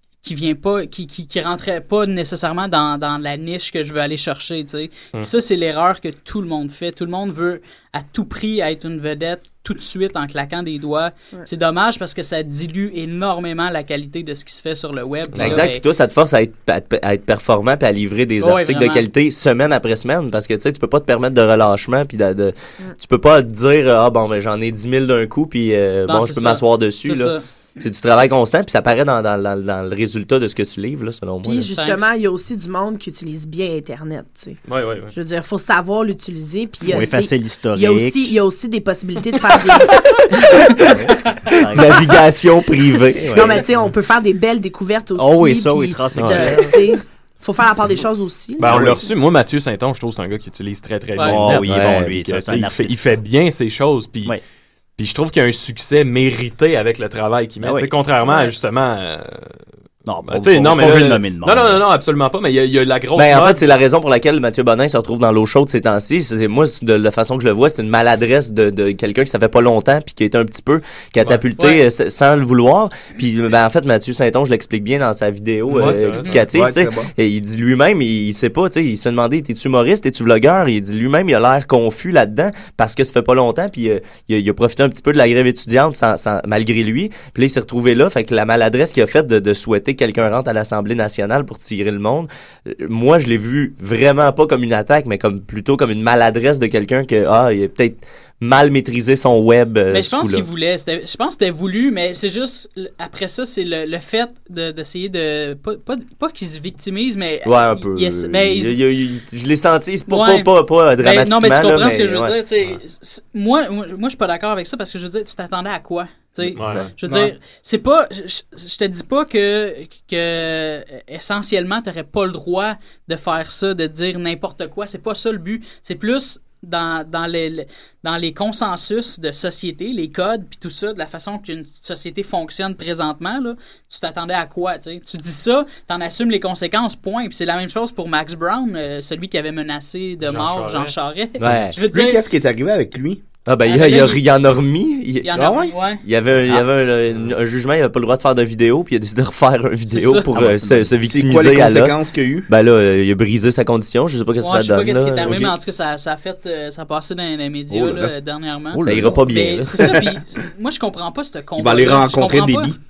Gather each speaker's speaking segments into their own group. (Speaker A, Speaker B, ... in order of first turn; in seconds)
Speaker A: 0.2-15.8, 18.4-19.1, 26.1-27.4, 31.7-32.1, 51.1-51.4, 71.6-71.8, 76.2-76.4, 99.9-108.8, 110.1-142.2, 143.7-144.2, 145.2-146.0, 149.9-150.3, 154.4-162.7
Speaker B: 15.3-15.7, 34.7-35.1, 46.1-46.5, 48.6-54.4, 55.0-59.6, 60.2-63.6, 75.7-76.3, 116.5-117.3, 140.2-140.9
Speaker C: 15.3-31.7, 41.7-43.6, 51.7-52.0, 63.1-100.5, 107.4-112.3, 141.4-141.8, 143.5-155.6, 157.7-158.1, 158.8-160.0
Speaker D: 31.4-40.8, 43.3-49.0, 58.2-58.5
Speaker E: 36.9-38.4, 40.7-42.0, 43.2-43.6, 45.1-46.8, 51.2-53.2, 57.6-57.9, 60.0-61.8, 150.3-151.0, 158.7-159.3
Speaker F: 75.7-77.1, 141.9-143.2, 145.3-145.8, 151.1-152.4, 161.6-162.8